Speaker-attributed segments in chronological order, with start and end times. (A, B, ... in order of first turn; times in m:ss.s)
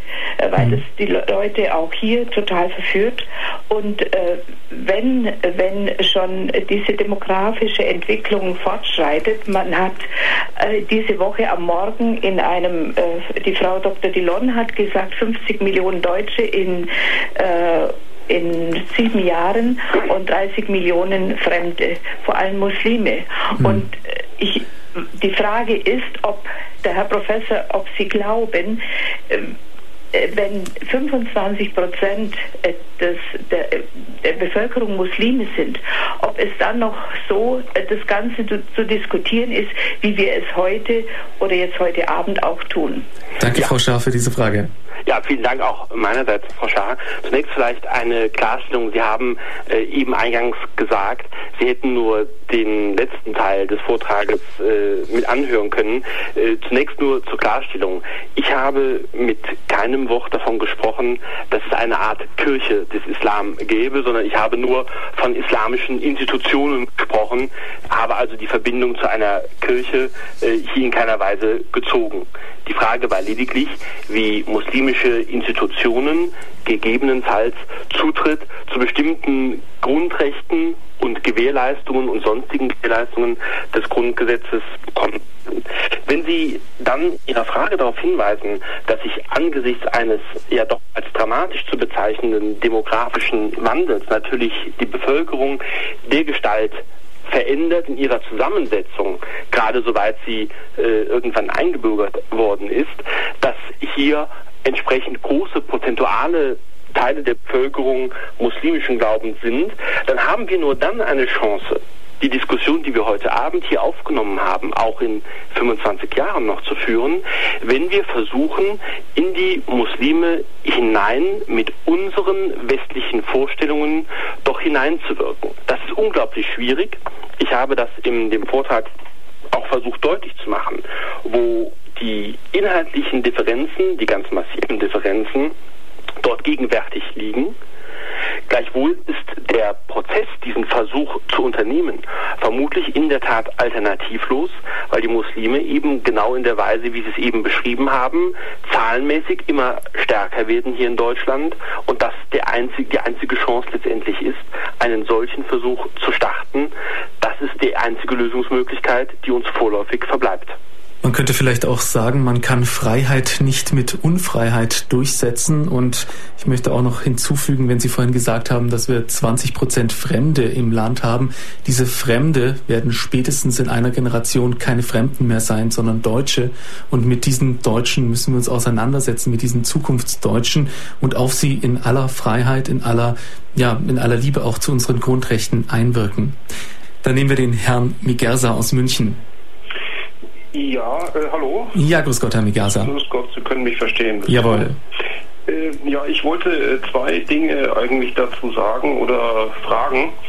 0:00.4-0:29.5 A
0:00.6-0:00.8 B
0:23.6-0:23.8 B
0:30.1-0:43.1 A
0:43.4-0:44.7 B
0:45.0-2:08.9 C
2:09.5-2:15.5 C
2:16.2-2:17.6 C
2:18.5-2:40.6 C
2:41.0-3:06.4 B
3:07.0-3:09.2 B
3:10.5-3:11.8 D
3:11.7-3:12.9 B
3:12.8-3:14.8 D
3:14.2-3:14.8 B
3:15.4-3:20.1 D